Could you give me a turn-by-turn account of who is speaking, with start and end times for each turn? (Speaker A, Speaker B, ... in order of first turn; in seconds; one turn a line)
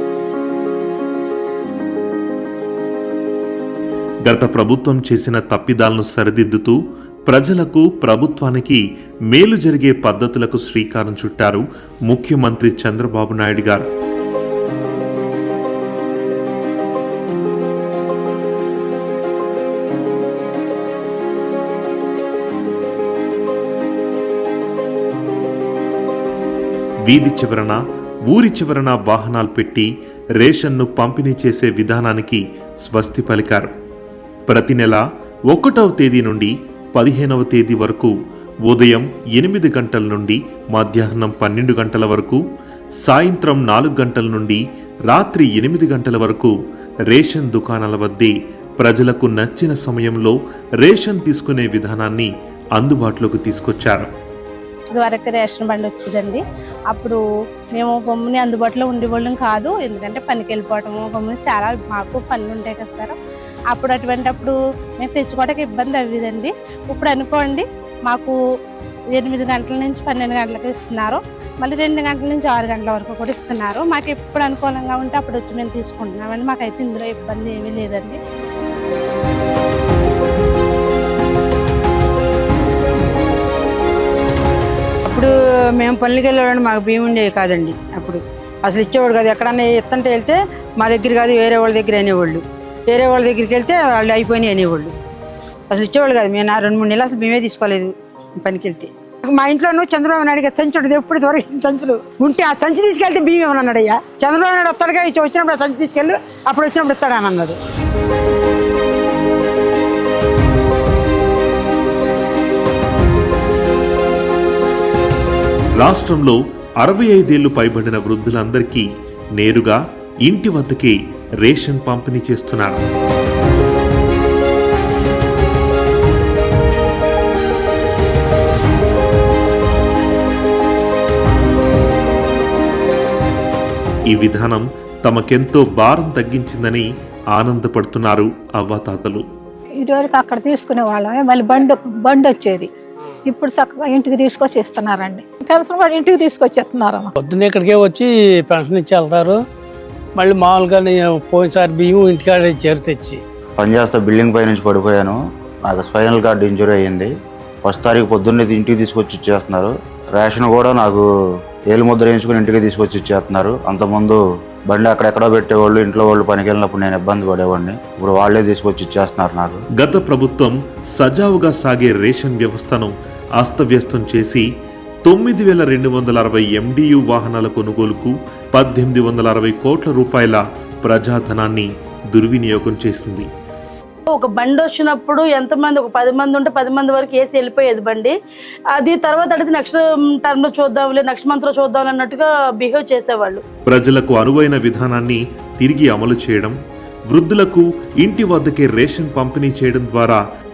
Speaker A: 4.3-13.8
Speaker A: 27.1-33.7
Speaker A: 34.5-38.1
Speaker A: 38.7-42.4
Speaker A: 43.0-46.5
Speaker A: 47.1-54.1
Speaker B: 54.9-57.2
Speaker B: 57.8-63.1
Speaker B: 63.7-68.3
Speaker B: 69.1-78.2
Speaker C: 85.1-94.9
Speaker C: 95.7-107.6
Speaker A: 115.8-118.9
Speaker A: 119.4-122.8
Speaker A: 134.1-139.2
Speaker D: 139.8-142.7
Speaker D: 143.2-147.1
Speaker E: 147.2-149.4
Speaker E: 150.2-153.2
Speaker F: 153.6-157.1
Speaker F: 157.7-161.1
Speaker F: 161.7-169.6
Speaker A: 169.8-174.5
Speaker A: 175.1-183.3
Speaker G: 184.1-188.1
Speaker G: 188.7-193.4
Speaker A: 193.7-196.6
Speaker A: 197.1-200.2